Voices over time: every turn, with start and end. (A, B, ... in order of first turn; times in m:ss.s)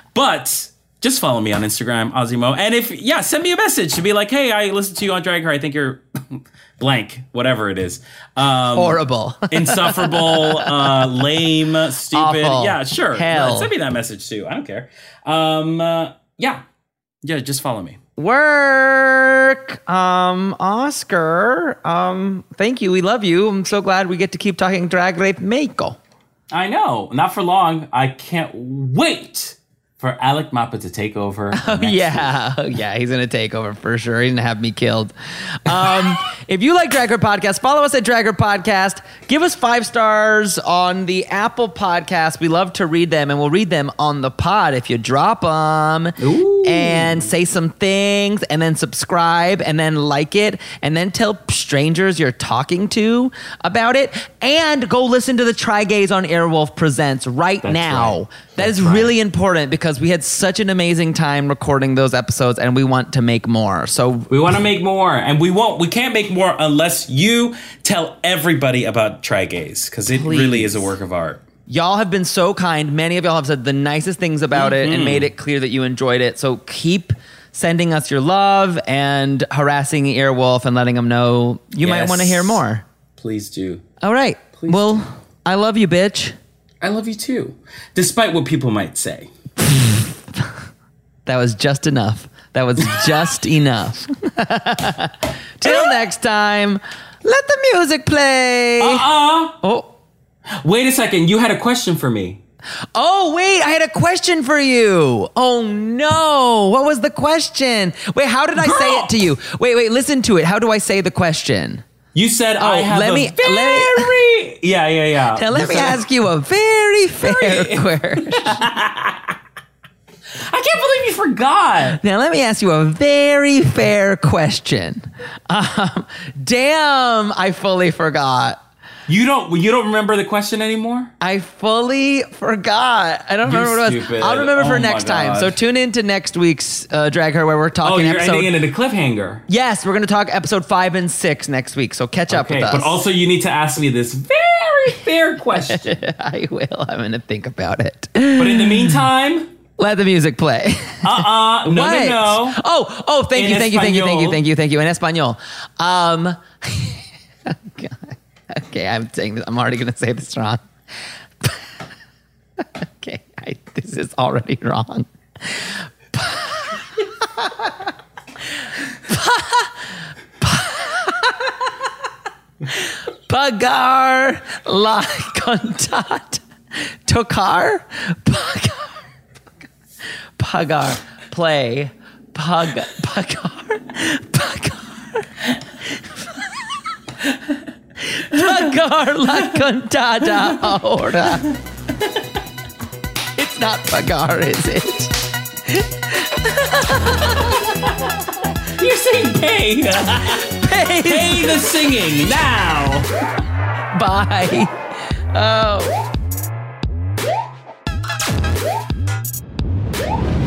0:00.1-0:09.0 A
0:08.7-0:11.0 B
0:09.5-0:16.6 A
0:12.1-0:13.7 B
0:17.2-0:18.0 A
0:18.2-0:26.0 B
0:26.5-0:32.3 A
0:31.5-0:35.1 B
0:35.6-1:04.3 B
0:46.2-0:47.3 A
0:57.6-0:59.1 A
1:04.3-1:11.4 A
1:10.1-1:11.0 B
1:11.7-1:22.8 B
1:14.5-1:15.3 A
1:21.8-1:22.6 A
1:23.2-1:23.8 A
1:24.0-1:26.4 B
1:24.5-1:25.0 A
1:26.8-1:29.3 A
1:29.6-1:30.5 B
1:31.2-1:39.1 B
1:35.6-1:36.0 A
1:38.8-1:39.6 A
1:39.6-1:39.9 B
1:40.6-1:42.4 A
1:42.9-1:51.8 B
1:48.6-1:49.3 A
1:52.1-1:56.0 A
1:52.6-1:54.1 B
1:55.3-1:58.6 B
1:57.2-1:59.4 A
2:00.3-2:02.0 A
2:02.0-2:08.6 B
2:09.1-2:11.1 A
2:11.2-2:18.5 B
2:13.4-2:15.6 A
2:17.8-2:19.4 A
2:19.5-2:23.0 B
2:22.3-2:26.0 A
2:25.6-2:29.0 B
2:28.3-2:29.5 A
2:29.8-2:40.6 B
2:31.0-2:32.6 A
2:33.3-2:34.4 A
2:42.6-2:47.9 B
2:49.0-2:49.8 B
2:50.4-2:51.7 B
2:52.6-2:59.0 B
3:00.4-3:06.8 B
3:08.0-3:11.5 B
3:10.3-3:10.6 A
3:13.4-3:15.1 B
3:15.7-3:17.7 B
3:18.8-3:23.1 A
3:20.5-3:21.6 B
3:23.9-3:24.7 B
3:25.3-3:26.0 B